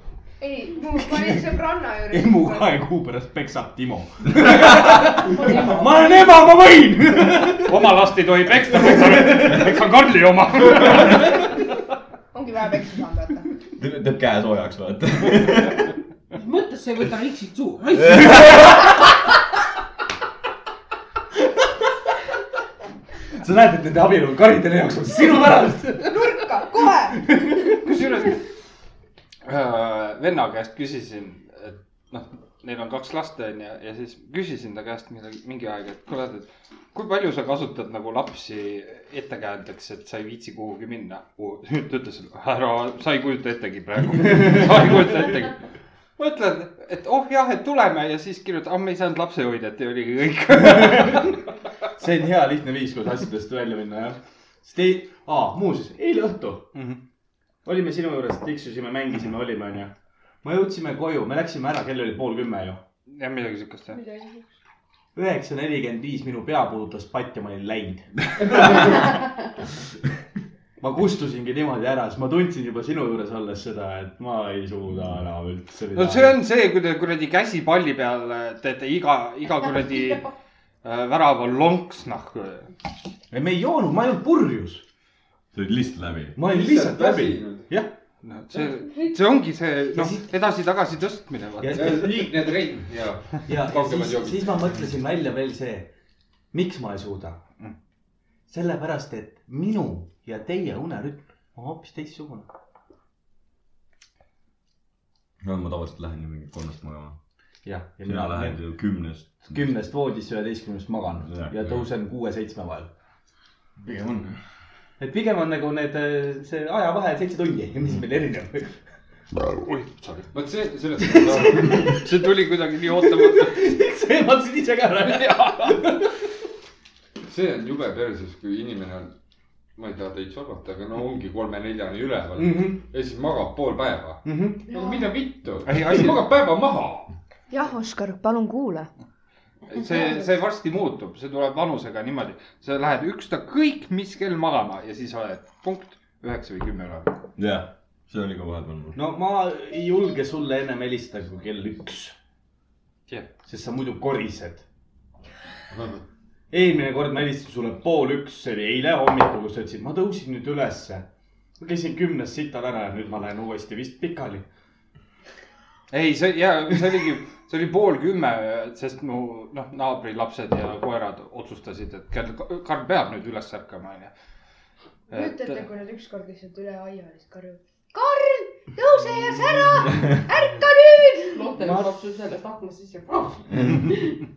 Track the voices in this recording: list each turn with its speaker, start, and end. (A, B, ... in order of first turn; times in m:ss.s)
0:00.4-0:02.8 A
0:02.1-0:07.9 B
0:05.1-0:06.3 C
0:07.6-0:11.4 D
0:08.9-0:09.6 B
0:12.3-0:13.5 A
0:13.8-0:16.0 E
0:16.4-0:18.7 C
0:18.0-0:18.2 E
0:23.3-0:26.4 B
0:26.0-0:27.2 A
0:27.2-0:27.8 B
0:27.7-0:28.4 D
0:29.4-0:45.6 D
0:44.2-0:44.5 B
0:46.2-0:51.4 D
0:50.6-0:51.3 B
0:51.9-0:56.7 B
0:57.6-1:02.8 B
1:03.1-1:04.0 D
1:03.9-1:04.5 C
1:05.1-1:09.1 B
1:10.8-1:16.4 B
1:15.9-1:20.3 D
1:20.8-1:22.7 D
1:23.3-1:24.8 B
1:25.5-1:26.4 E
1:26.4-1:27.9 B
1:26.5-1:27.7 F
1:28.2-1:32.0 D
1:29.9-1:30.3 B
1:31.6-1:32.5 B
1:31.7-1:34.5 F
1:33.4-1:35.9 B
1:36.5-1:37.4 B
1:38.5-1:42.5 B
1:45.4-1:47.2 E
1:47.6-1:48.6 B
1:48.0-1:49.7 E
1:49.4-1:52.9 B
1:51.3-1:51.8 E
1:53.8-1:54.4 E
1:55.0-1:58.8 B
1:59.6-2:00.3 D
2:00.3-2:01.9 F
2:01.0-2:02.2 B
2:01.8-2:03.6 D
2:02.8-2:06.1 B
2:05.0-2:05.9 D
2:07.2-2:09.1 F
2:09.8-2:17.0 F
2:12.4-2:12.8 B
2:14.2-2:14.6 B
2:14.7-2:15.2 A
2:15.7-2:17.0 D
2:17.5-2:18.9 A
2:19.7-2:27.1 D
2:27.4-2:29.0 E
2:28.9-2:32.2 B
2:33.4-2:34.6 B
2:36.5-2:41.1 B
2:41.6-2:44.4 B
2:45.9-2:54.1 D
2:55.1-2:55.7 D
2:55.1-3:01.4 A
3:01.2-3:04.2 C
3:01.6-3:01.9 B